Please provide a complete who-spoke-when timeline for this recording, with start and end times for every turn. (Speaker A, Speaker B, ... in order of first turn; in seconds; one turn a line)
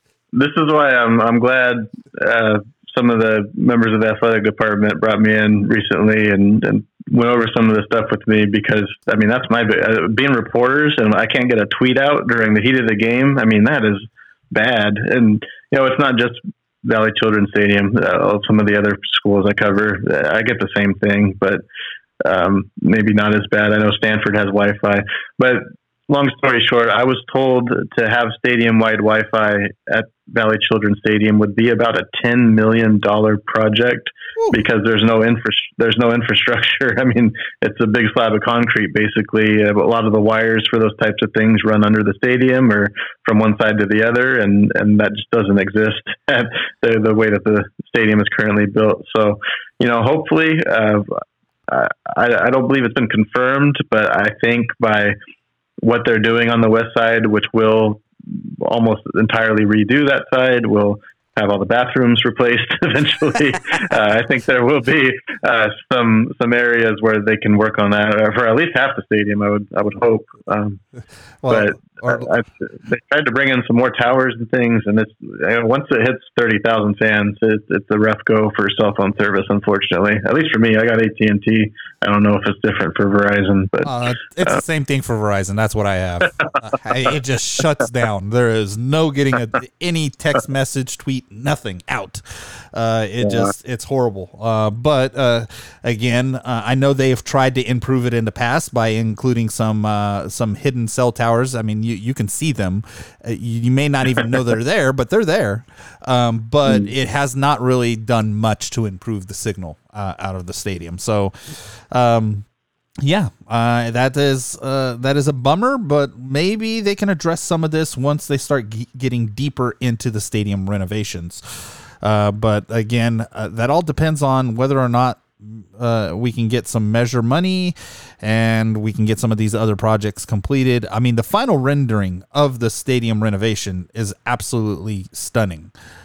Speaker A: 0.3-21.6
Speaker A: 22.2-55.1
Speaker A: 55.8-70.8
Speaker B: 71.4-72.3
Speaker A: 71.5-84.5
Speaker B: 83.8-112.4
Speaker A: 93.2-93.5
Speaker B: 113.0-135.7